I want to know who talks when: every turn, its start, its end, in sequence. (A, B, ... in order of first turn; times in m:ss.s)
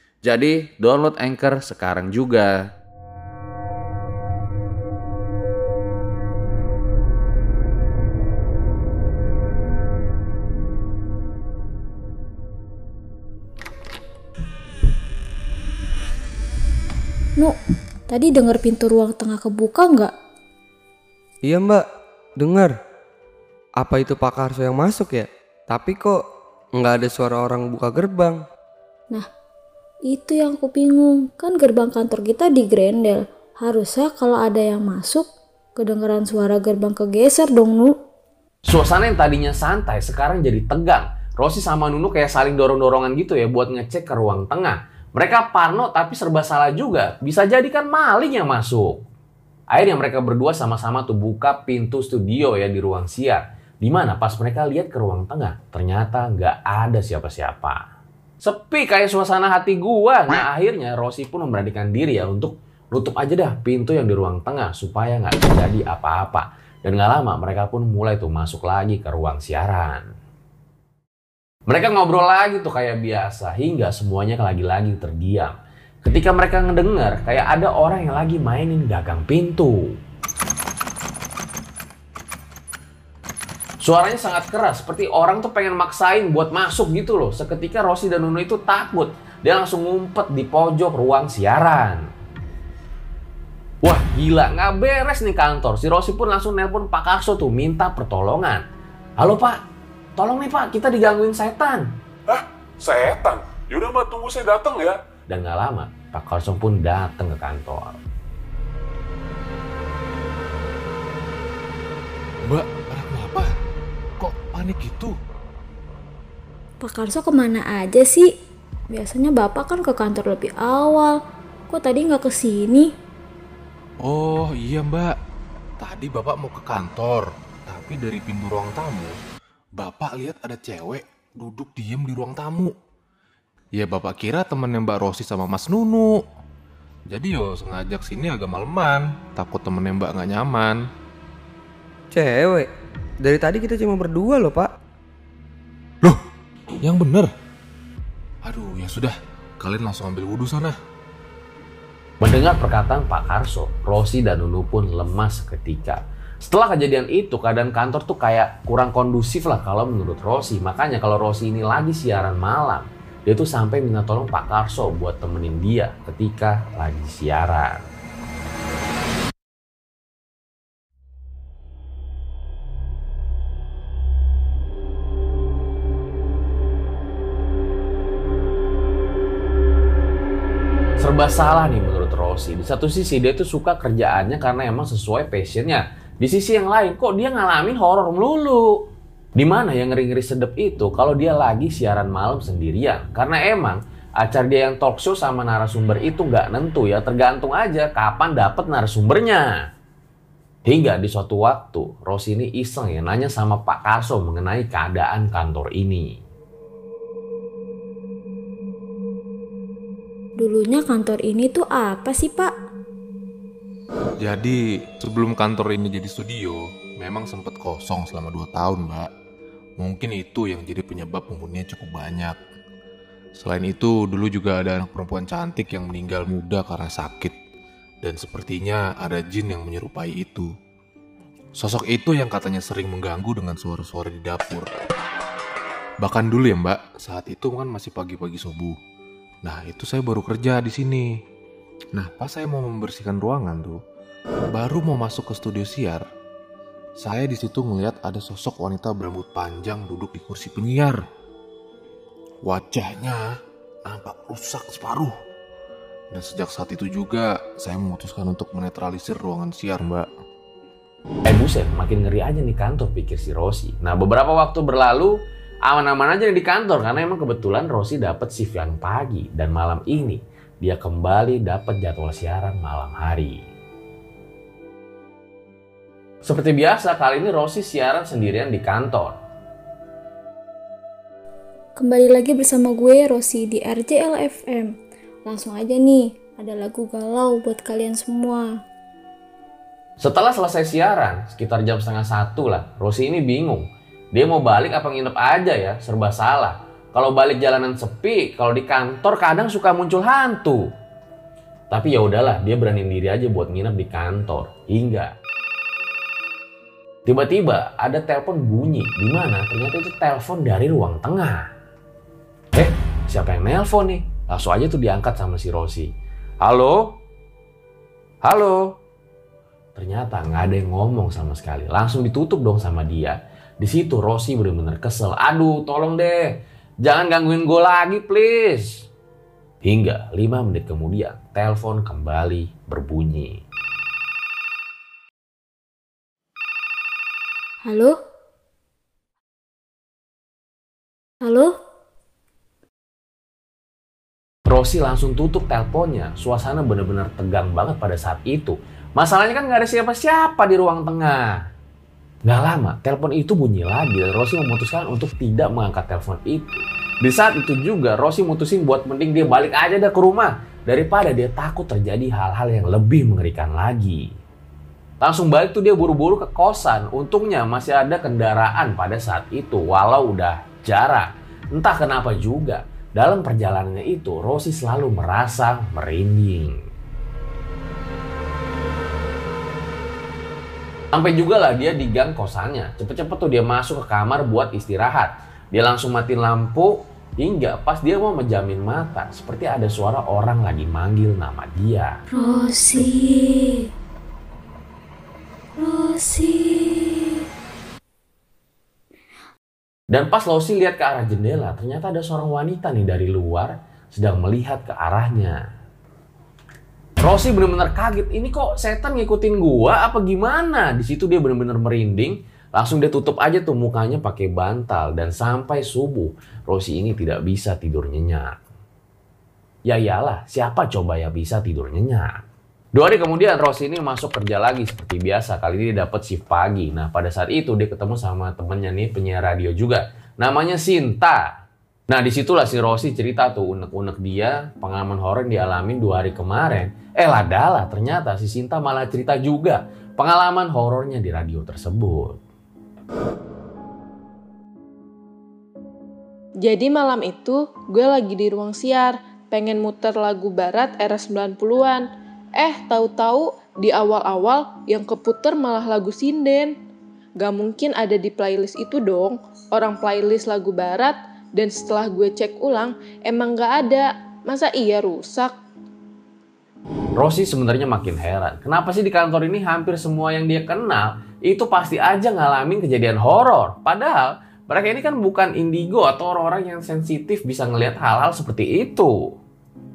0:00.2-0:02.7 A
0:18.1-0:20.1 B
0:21.5-0:21.8 C
0:22.4-0:22.7 C
0:23.8-0:26.2 C
0:26.8-0:28.4 C
0:30.1-0:35.3 B
0:35.8-0:37.9 B
0:38.7-0:49.0 A
0:49.7-0:57.8 A
0:58.4-1:10.1 A
1:11.7-1:19.9 A
1:23.8-1:32.1 A
1:33.8-1:38.6 A
1:39.2-1:39.6 A
1:40.2-1:41.9 A
1:42.3-1:45.0 D
1:45.3-1:48.0 A
1:52.4-1:53.5 E
1:54.2-1:55.2 E
1:56.8-1:58.3 B
1:58.9-2:01.2 B
2:01.7-2:02.9 B
2:04.0-2:05.1 E
2:05.8-2:09.2 E
2:09.8-2:12.7 E
2:13.8-2:16.2 E
2:17.1-2:20.8 E
2:22.2-2:22.7 C
2:23.4-2:24.7 C
2:26.8-2:27.3 E
2:28.4-2:30.8 E
2:32.2-2:47.9 A
3:01.0-3:08.8 A
3:09.4-3:19.6 A
3:20.7-3:26.2 A
3:30.4-3:32.5 B
3:34.2-3:39.1 E
3:39.8-3:42.4 E
3:43.4-3:47.4 E
3:48.0-3:50.5 E
3:51.6-3:54.7 E
3:56.0-3:58.8 E
3:59.4-4:01.1 E
4:01.9-4:03.8 E
4:04.5-4:06.0 E
4:07.0-4:11.0 E
4:12.4-4:13.2 E
4:13.9-4:15.1 E
4:16.1-4:20.1 E
4:21.3-4:33.4 A
4:36.2-4:39.2 A
4:41.8-4:44.7 B
4:45.3-4:48.5 B
4:50.0-5:00.7 A
5:01.7-5:05.1 A
5:07.1-5:11.5 A
5:12.5-5:17.0 A
5:18.2-5:18.7 A
5:19.8-5:28.9 A
5:29.6-5:33.4 A
5:37.6-5:38.0 B
5:41.2-5:41.5 B
5:44.5-5:51.4 A
5:52.3-6:04.1 A
6:05.0-6:16.6 A
6:20.9-6:31.9 A
6:32.1-6:33.7 B
6:35.6-6:37.2 B
6:39.9-6:45.4 A
6:47.0-6:58.4 A
6:59.7-7:02.2 A
7:02.8-7:11.3 A
7:11.9-7:22.2 A
7:26.4-7:31.9 F
7:32.4-7:36.5 F
7:37.2-7:45.3 F
7:47.0-7:59.1 A